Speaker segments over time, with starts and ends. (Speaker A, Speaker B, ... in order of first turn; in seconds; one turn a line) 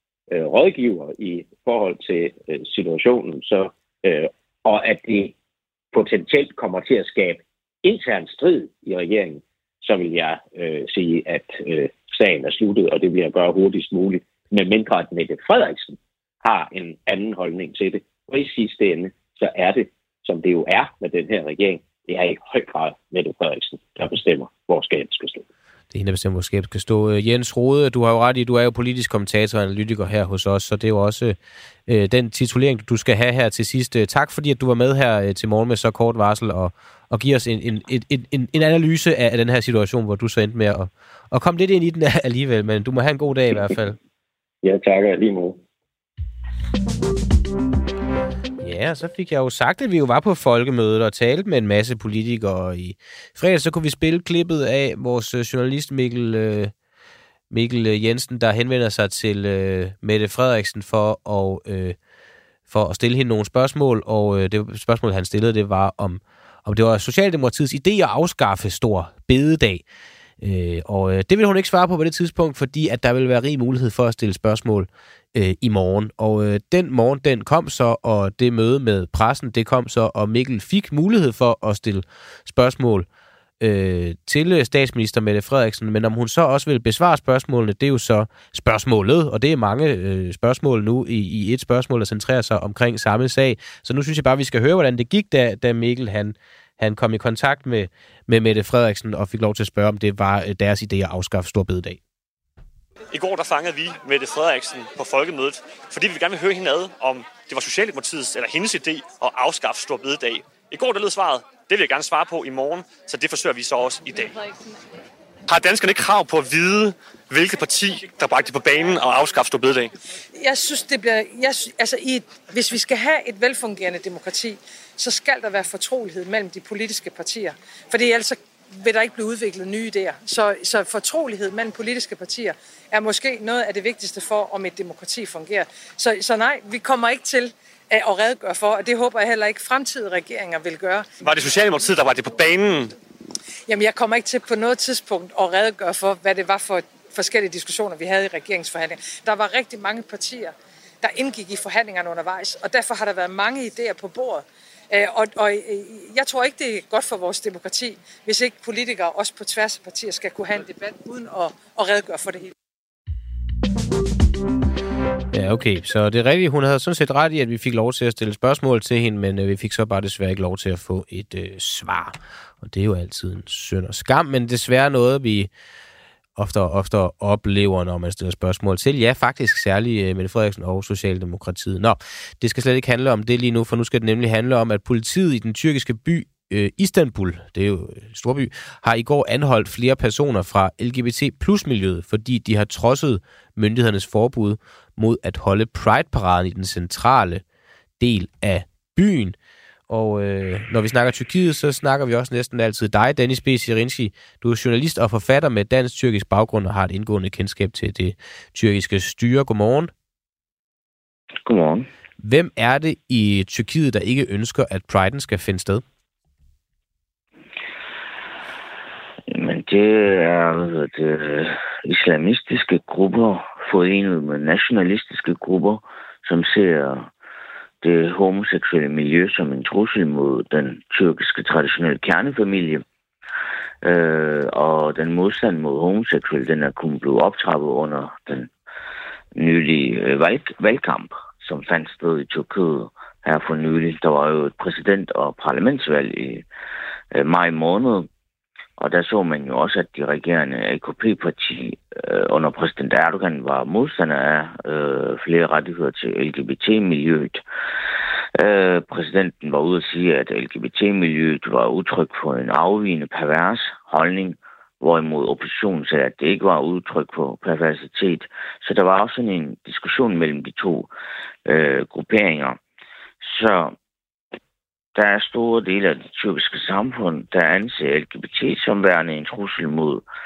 Speaker A: 0.3-5.3
Speaker A: 5.9-25.4
Speaker B: 25.9-44.0
Speaker A: 44.6-45.6
Speaker B: 48.6-56.7
Speaker B: 57.5-62.0
Speaker B: 62.7-69.8
Speaker B: 70.4-83.0
Speaker B: 83.6-102.0
Speaker C: 103.1-114.4
Speaker C: 115.5-119.9
Speaker D: 120.3-141.1
Speaker C: 141.2-142.9
Speaker D: 143.7-162.5
Speaker B: 165.3-175.5
Speaker B: 176.3-197.4
Speaker B: 198.0-199.3
Speaker B: 199.9-209.9
Speaker E: 211.4-211.9
Speaker B: 212.2-215.8
Speaker E: 219.3-227.1
Speaker E: 227.8-232.8
Speaker E: 233.8-238.5
Speaker E: 239.3-246.4
Speaker E: 247.1-248.1
Speaker E: 248.8-270.9
Speaker E: 271.4-272.6
Speaker E: 273.2-273.8
Speaker E: 274.9-280.0